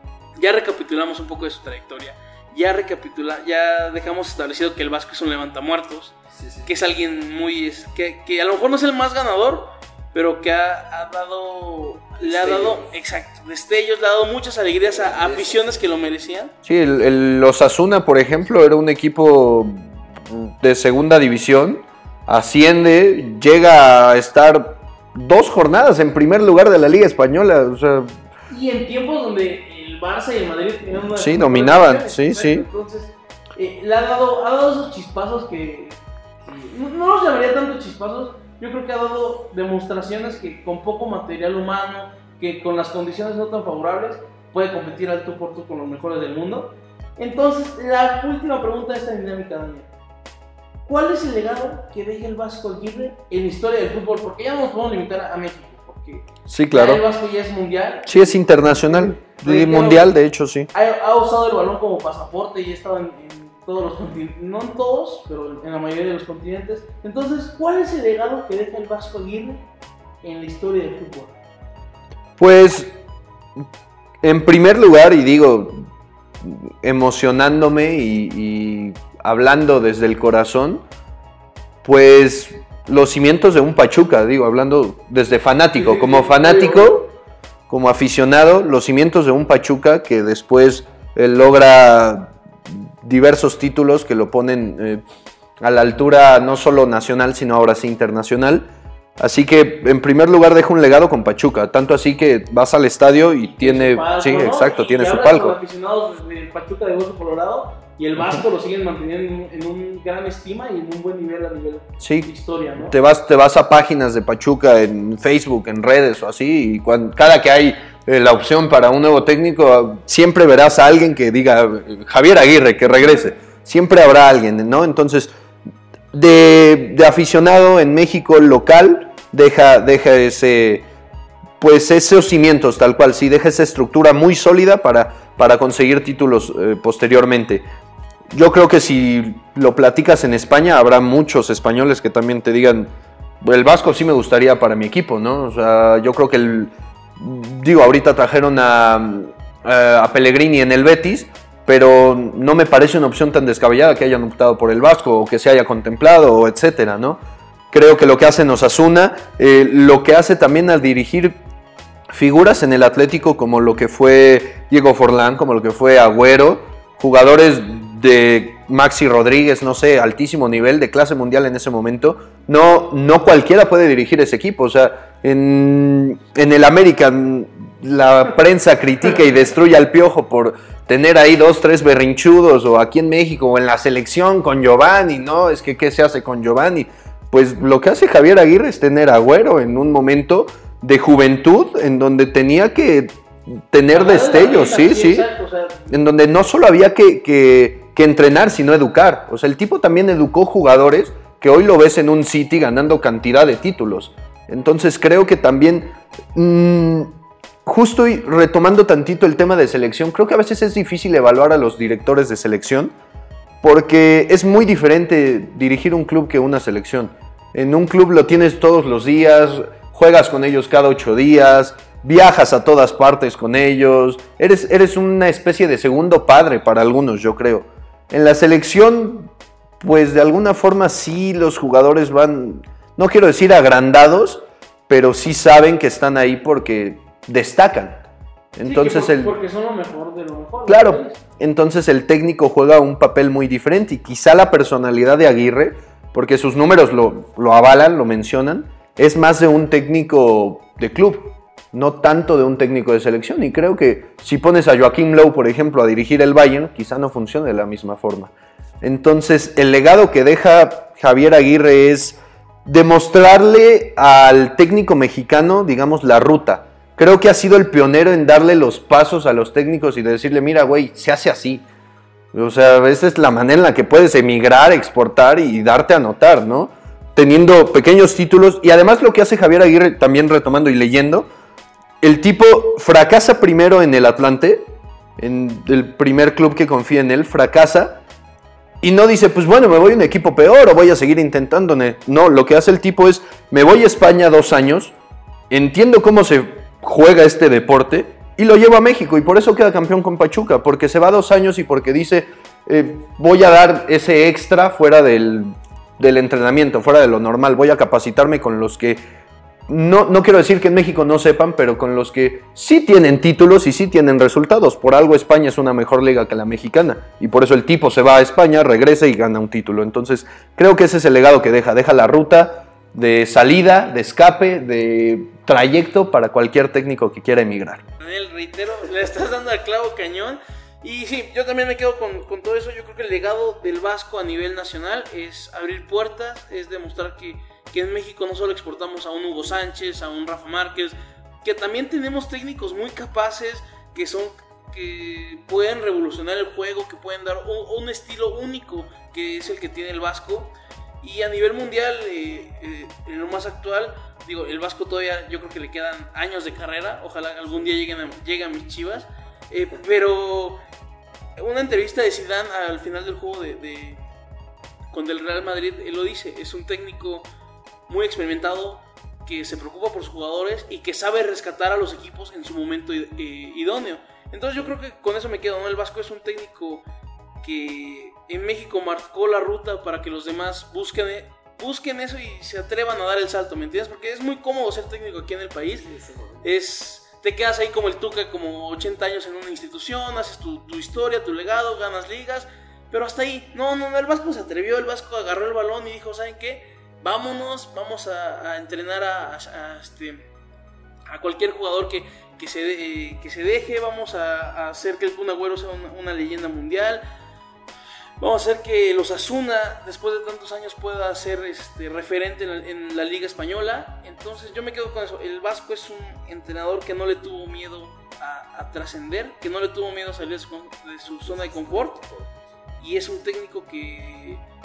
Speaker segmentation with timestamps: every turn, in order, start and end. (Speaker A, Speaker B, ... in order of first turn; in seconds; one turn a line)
Speaker A: 0.4-16.5
Speaker B: 6.3-6.7
Speaker B: 12.2-12.8
Speaker B: 15.0-15.6
Speaker B: 16.6-28.1
Speaker A: 28.5-49.9
Speaker B: 31.1-32.6
Speaker A: 50.9-60.1
Speaker B: 56.5-57.0
Speaker B: 58.0-60.7
Speaker A: 60.7-69.6
Speaker A: 70.2-71.3
Speaker B: 72.4-72.9
Speaker B: 74.2-75.9
Speaker B: 76.4-80.8
Speaker B: 81.8-87.1
Speaker A: 85.8-87.1
Speaker B: 87.7-95.0
Speaker B: 95.6-98.7
Speaker B: 99.2-105.5
Speaker A: 103.4-112.9
Speaker B: 112.0-125.3
Speaker B: 126.1-130.9
Speaker B: 131.6-137.7
Speaker B: 138.3-142.9
Speaker B: 143.4-157.2
Speaker B: 157.7-161.4
Speaker B: 162.1-195.2
Speaker A: 193.9-195.9
Speaker B: 195.9-212.9
Speaker B: 213.6-238.0
Speaker B: 238.6-239.3
Speaker A: 238.6-241.2
Speaker B: 240.7-271.6
Speaker B: 272.3-281.3
Speaker B: 282.0-288.0
Speaker B: 288.8-294.9
Speaker B: 295.5-309.0
Speaker B: 309.7-327.8
Speaker A: 328.0-360.6
Speaker A: 361.4-364.0
Speaker A: 364.9-367.2
Speaker A: 367.9-376.8
Speaker A: 377.4-385.9
Speaker A: 386.4-400.2
Speaker A: 401.1-407.0
Speaker A: 408.2-422.0
Speaker A: 422.8-424.4